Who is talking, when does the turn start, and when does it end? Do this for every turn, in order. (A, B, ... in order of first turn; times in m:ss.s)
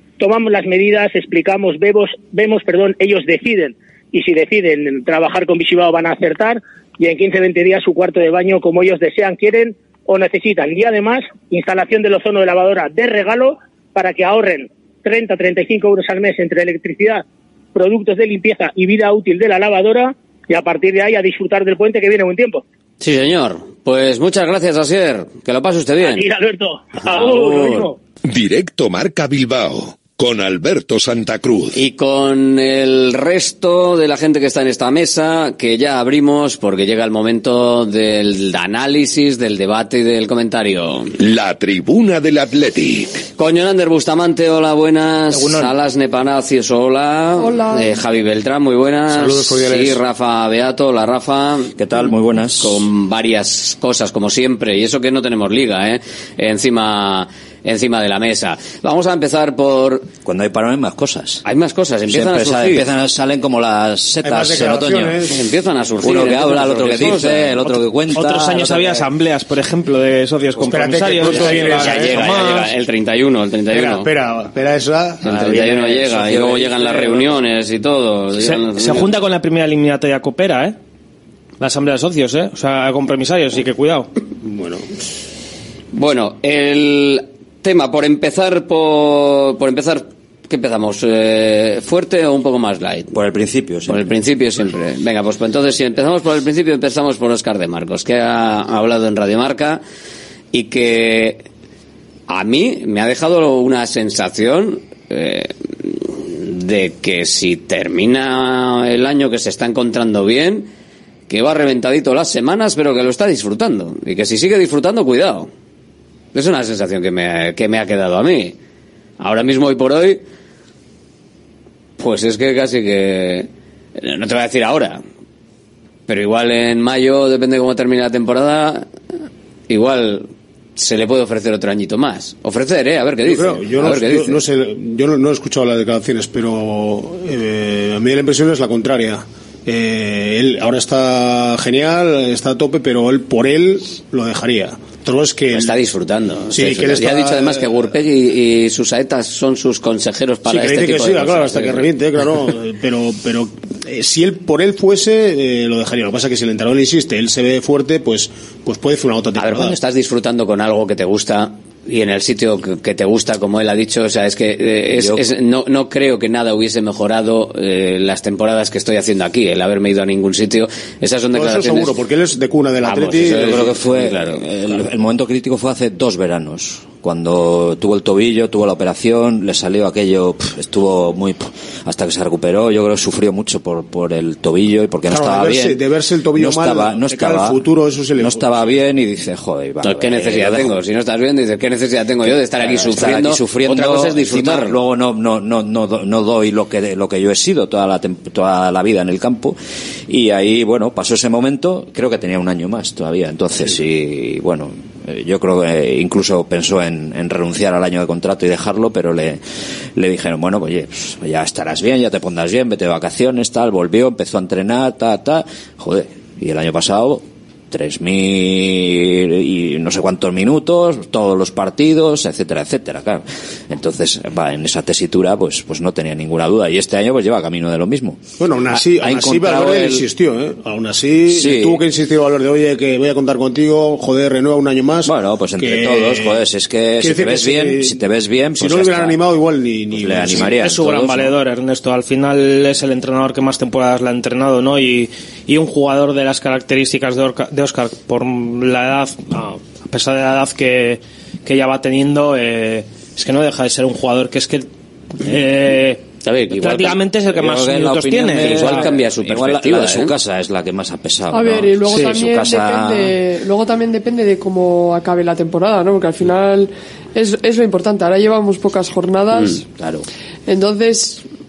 0:00.2-0:17.2 A
0:17.7-0:22.6 A
0:23.0-0:26.3 B
0:26.0-0:27.9 A
0:27.0-0:27.9 B
0:28.3-0:31.8 C
0:31.7-0:41.1 B
0:41.2-0:43.2 C
0:43.4-1:00.0 B
0:45.3-0:45.7 D
0:47.4-0:47.9 E
0:49.1-0:50.0 F
0:51.8-0:52.8 G
1:00.2-1:01.4 G
1:01.4-1:02.9 B
1:02.2-1:05.1 G
1:04.2-1:05.4 F
1:05.3-1:07.5 B
1:06.1-1:08.6 H
1:06.1-1:08.4 G
1:07.6-1:12.7 D
1:10.7-1:12.4 F
1:11.2-1:14.1 B
1:13.7-1:15.2 F
1:15.2-1:19.1 B
1:15.6-1:16.7 H
1:15.6-1:16.6 G
1:18.4-1:20.7 D
1:21.6-1:24.1 D
1:24.4-1:25.0 F
1:25.9-1:33.1 B
1:33.3-1:34.0 G
1:33.8-1:39.8 B
1:40.5-1:41.4 B
1:42.3-1:50.7 B
1:51.3-1:55.5 B
1:56.3-1:58.6 B
1:59.2-2:00.2 B
2:02.0-2:05.0 B
2:06.1-2:08.9 B
2:09.7-2:14.4 B
2:13.2-2:25.8 F
2:25.5-2:31.8 B
2:26.5-2:27.9 F
2:30.5-2:39.8 F
2:39.4-2:51.9 B
2:51.3-2:53.7 F
2:52.8-2:54.7 B
2:53.6-3:01.3 H
3:01.9-3:05.7 H
3:05.1-3:08.7 F
3:06.4-3:07.5 H
3:08.2-3:10.6 H
3:09.8-3:14.8 B
3:12.6-3:19.5 H
3:12.8-3:14.7 G
3:20.1-3:29.4 H
3:23.4-3:23.9 G
3:30.0-3:37.2 H
3:37.7-3:43.2 H
3:43.7-3:48.2 H
3:48.4-3:56.4 F
3:49.0-3:50.0 H
3:51.3-3:51.8 H
3:55.1-3:59.1 H
3:57.0-3:58.0 F
3:58.6-4:00.6 F
4:00.0-4:01.3 H
4:00.5-4:14.7 D
4:15.2-4:16.0 D
4:16.2-4:17.0 B
4:16.6-4:18.9 D
4:17.4-4:23.1 H
4:18.4-4:20.1 B
4:19.6-4:20.1 G
4:21.3-4:29.6 E
4:30.5-4:31.2 E